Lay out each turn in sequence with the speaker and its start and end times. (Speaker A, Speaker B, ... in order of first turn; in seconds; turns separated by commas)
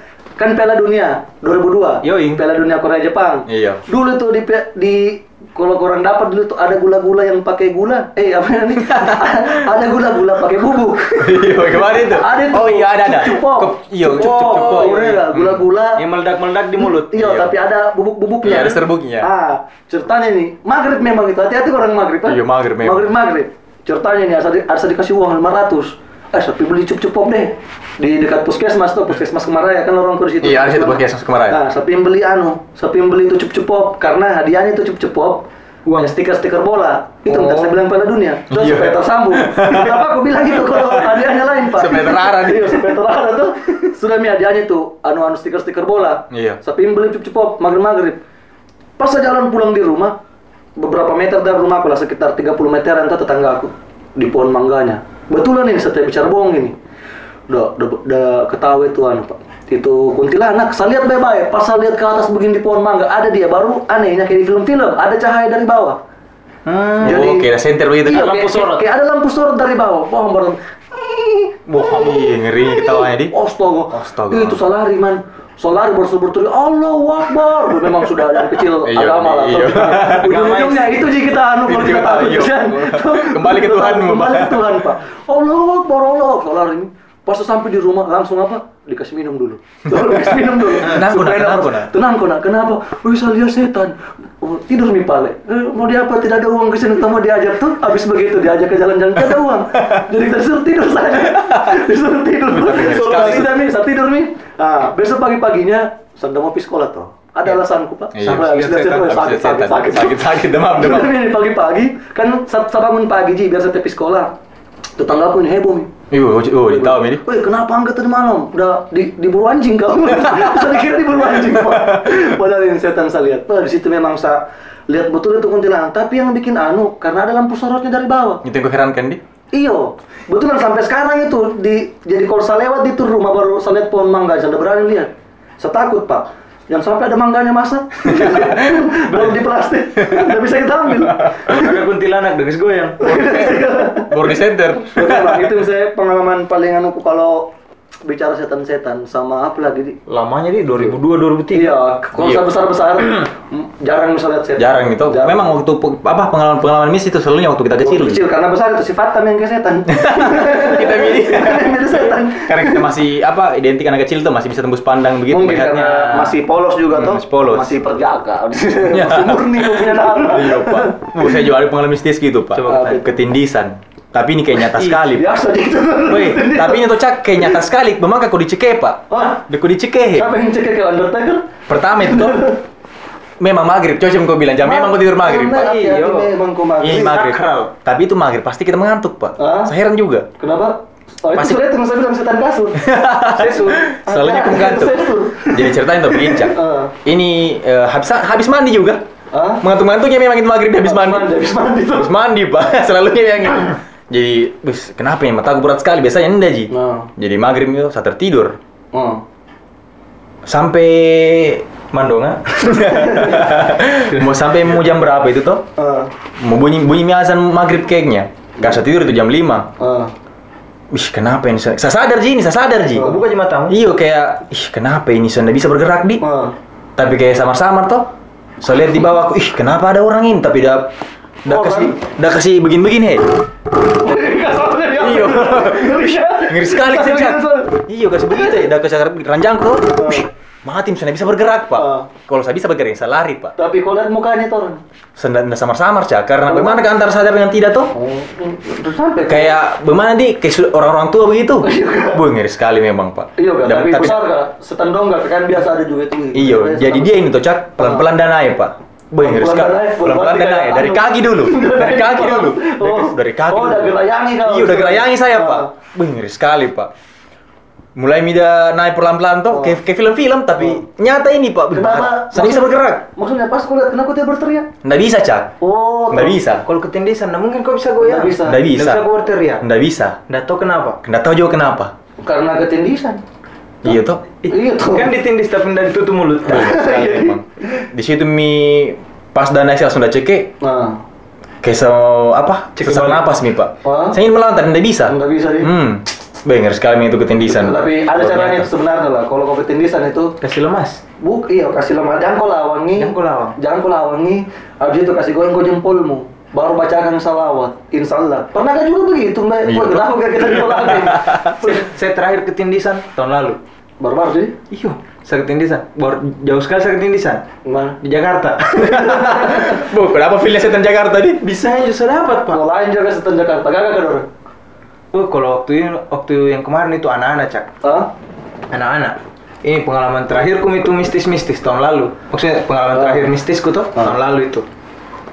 Speaker A: 0.4-16.0, Speaker B: 2.0-2.4, Speaker C: 3.5-3.8, Speaker C: 8.9-9.6, Speaker C: 11.2-15.5, Speaker B: 14.0-17.4, Speaker A: 16.8-35.5, Speaker C: 17.1-17.5, Speaker C: 18.4-19.3, Speaker C: 22.3-23.1, Speaker C: 30.4-31.6, Speaker B: 35.9-36.1, Speaker A: 36.0-48.2, Speaker B: 37.3-37.7, Speaker C: 38.5-42.9, Speaker C: 46.3-46.6, Speaker A: 49.0-50.2, Speaker A: 50.8-56.8, Speaker A: 57.5-66.0, Speaker B: 66.7-67.3, Speaker A: 67.0-67.5, Speaker C: 67.0-68.4, Speaker B: 68.1-68.9, Speaker A: 68.1-71.6, Speaker B: 71.7-72.2, Speaker C: 71.9-73.3, Speaker A: 72.8-114.3, Speaker C: 73.9-74.6, Speaker C: 78.8-80.4, Speaker B: 80.2-81.0, Speaker C: 81.7-84.8, Speaker C: 90.8-91.9, Speaker C: 101.3-101.8, Speaker C: 102.5-103.6, Speaker C: 108.1-111.2, Speaker B: 108.2-108.7, Speaker A: 115.0-115.9, Speaker C: 116.1-117.2, Speaker A: 116.7-128.4, Speaker C: 120.3-120.6, Speaker C: 121.8-122.0, Speaker C: 128.4-129.2, Speaker A: 129.5-141.7, Speaker C: 138.1-139.2, Speaker B: 141.4-143.3, Speaker A: 143.0-147.5, Speaker C: 143.4-145.5, Speaker A: 148.0-150.0, Speaker B: 150.1-151.8, Speaker A: 151.5-155.5, Speaker C: 152.2-152.5, Speaker C: 154.6-158.2, Speaker A: 157.8-162.9, Speaker C: 159.9-165.9, Speaker A: 165.3-171.3, Speaker B: 165.7-166.4, Speaker C: 166.9-167.8, Speaker C: 168.9-175.3, Speaker B: 172.5-173.1, Speaker A: 172.7-173.1, Speaker A: 174.9-177.5, Speaker C: 176.1-180.3, Speaker A: 179.1-179.4, Speaker A: 180.2-181.5, Speaker C: 181.7-182.5, Speaker A: 182.0-182.6, Speaker C: 183.4-185.7, Speaker A: 184.6-187.2, Speaker B: 185.5-186.3, Speaker C: 186.8-190.3, Speaker B: 186.8-187.7, Speaker A: 189.4-189.7, Speaker A: 190.4-192.9, Speaker C: 192.8-199.0, Speaker B: 193.3-193.9, Speaker A: 194.0-196.9, Speaker A: 199.3-199.6, Speaker C: 199.6-201.3, Speaker A: 200.8-202.1, Speaker C: 201.9-208.6, Speaker A: 206.7-207.1, Speaker A: 208.9-209.2, Speaker C: 210.4-211.7, Speaker B: 211.9-213.1, Speaker C: 212.6-215.7, Speaker A: 212.9-213.5, Speaker A: 215.8-216.1, Speaker C: 216.4-219.7, Speaker A: 219.8-220.1, Speaker C: 220.9-223.1, Speaker A: 223.0-223.2, Speaker B: 223.0-223.8, Speaker C: 223.7-226.2, Speaker A: 226.2-226.6, Speaker C: 227.0-228.1, Speaker C: 228.6-230.9, Speaker C: 231.4-233.2, Speaker A: 231.5-232.0, Speaker A: 233.9-238.6, Speaker C: 235.0-243.6, Speaker A: 239.9-240.3, Speaker A: 241.8-242.1, Speaker A: 243.6-244.8, Speaker C: 245.2-247.9, Speaker A: 246.5-246.8, Speaker A: 247.9-249.6, Speaker C: 249.3-254.2, Speaker A: 251.6-252.2, Speaker A: 253.4-257.1, Speaker C: 256.3-266.9, Speaker A: 257.8-258.1, Speaker A: 259.2-265.7, Speaker C: 268.0-273.1, Speaker A: 269.5-269.8, Speaker A: 271.7-274.7, Speaker C: 274.8-275.5, Speaker A: 275.6-276.4, Speaker C: 276.1-276.6, Speaker B: 276.6-279.6, Speaker A: 278.0-278.6, Speaker C: 278.4-279.1, Speaker C: 279.6-280.2, Speaker B: 280.3-281.0, Speaker C: 281.0-281.9, Speaker A: 282.2-283.2, Speaker C: 283.8-284.2, Speaker B: 284.4-286.8, Speaker A: 284.5-285.1, Speaker C: 286.5-290.5, Speaker A: 286.5-287.8, Speaker A: 290.6-291.0, Speaker C: 291.6-298.7, Speaker B: 292.8-293.3, Speaker A: 293.8-294.2, Speaker A: 295.1-295.7, Speaker A: 297.5-300.4, Speaker B: 300.4-301.0, Speaker A: 301.2-311.9, Speaker B: 303.0-303.6, Speaker C: 309.6-311.5, Speaker B: 311.6-313.6, Speaker A: 314.0-314.6, Speaker B: 314.7-317.4, Speaker A: 317.6-318.0, Speaker B: 318.0-319.2, Speaker C: 318.8-321.5, Speaker A: 318.8-319.8, Speaker B: 321.4-322.6, Speaker A: 322.5-324.3, Speaker B: 325.1-327.7, Speaker A: 327.8-328.1, Speaker B: 328.7-334.7, Speaker A: 332.9-333.3